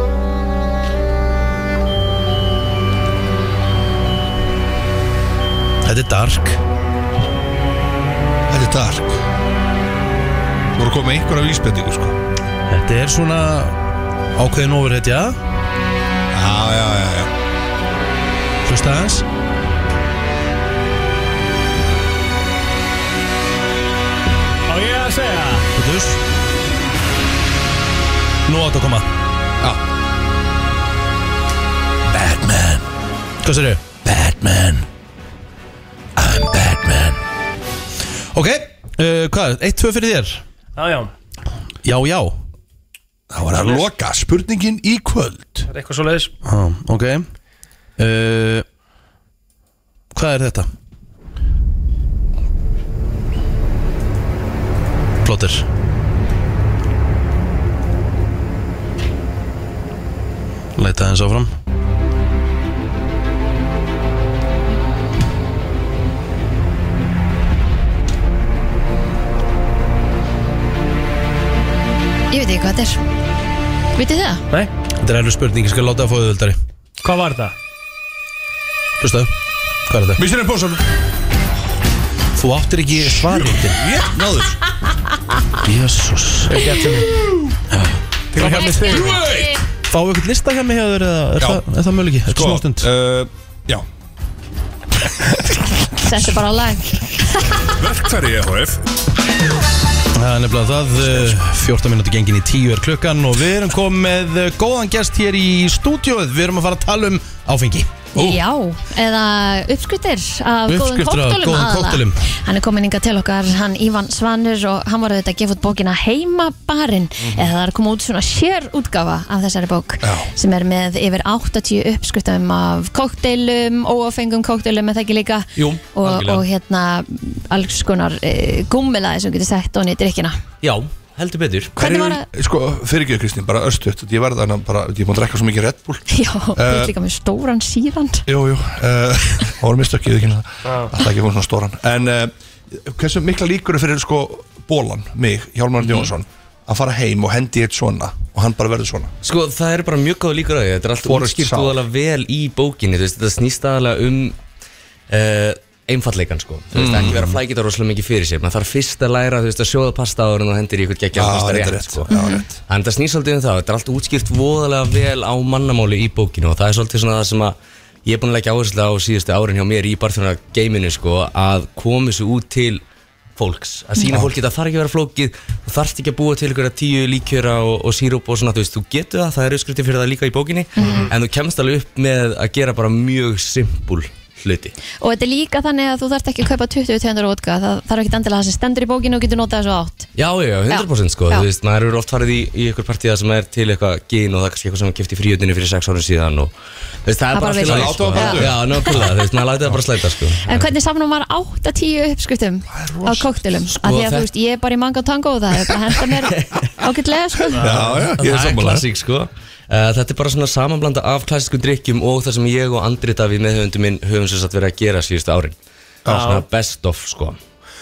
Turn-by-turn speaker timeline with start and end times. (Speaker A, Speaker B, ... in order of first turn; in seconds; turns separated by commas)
Speaker A: 5.8-6.6, Speaker B: 8.5-9.2, Speaker B: 10.7-12.2, Speaker A: 12.7-13.8, Speaker A: 14.4-15.4, Speaker B: 16.3-17.3, Speaker A: 18.6-19.3, Speaker C: 24.7-25.7, Speaker A: 25.8-26.2, Speaker A: 28.5-29.1, Speaker A: 32.1-32.8, Speaker A: 33.4-34.9, Speaker A: 36.2-37.2, Speaker A: 38.3-40.4, Speaker C: 40.8-41.1, Speaker A: 41.8-42.4, Speaker B: 43.3-45.7, Speaker C: 43.5-43.8, Speaker C: 45.7-46.3, Speaker A: 46.5-47.3, Speaker A: 48.0-48.6, Speaker A: 50.1-50.7, Speaker A: 55.2-55.7, Speaker A: 60.8-61.5, Speaker D: 72.3-73.0, Speaker D: 74.0-74.4, Speaker A: 75.0-76.6, Speaker C: 77.0-77.5, Speaker A: 79.0-79.3, Speaker A: 79.9-80.2, Speaker B: 80.2-80.8, Speaker A: 82.3-83.8, Speaker B: 83.6-84.6, Speaker A: 85.6-86.6, Speaker C: 86.5-87.1, Speaker A: 87.7-88.0, Speaker C: 88.3-89.1, Speaker D: 88.4-89.5, Speaker B: 88.8-89.5, Speaker A: 89.9-92.9, Speaker B: 91.4-91.6, Speaker B: 92.3-93.9, Speaker D: 96.0-97.5, Speaker B: 97.7-98.8, Speaker A: 100.1-107.9, Speaker D: 108.2-130.4, Speaker B: 108.2-108.4, Speaker A: 110.7-112.2, Speaker B: 117.2-117.5, Speaker B: 120.0-120.3, Speaker E: 125.6-126.5, Speaker E: 130.6-131.8, Speaker D: 131.8-132.3, Speaker B: 131.8-136.9, Speaker D: 136.1-138.2, Speaker B: 138.3-149.1, Speaker E: 145.8-146.1, Speaker E: 149.2-154.4, Speaker B: 151.0-151.8, Speaker E: 155.1-172.8, Speaker B: 156.7-157.4, Speaker B: 161.1-162.6, Speaker D: 162.1-162.4, Speaker E: 173.4-184.8, Speaker D: 180.8-181.1, Speaker C: 180.8-181.1, Speaker D: 185.0-190.1, Speaker E: 190.2-196.5, Speaker D: 190.7-191.5, Speaker E: 197.1-200.7, Speaker D: 197.3-199.0, Speaker B: 197.6-198.7, Speaker D: 200.4-207.7, Speaker B: 202.7-203.3, Speaker E: 203.7-204.3, Speaker E: 206.2-206.5, Speaker B: 207.6-208.9, Speaker C: 207.6-207.9, Speaker E: 208.2-215.6, Speaker C: 216.1-216.4, Speaker E: 216.1-217.4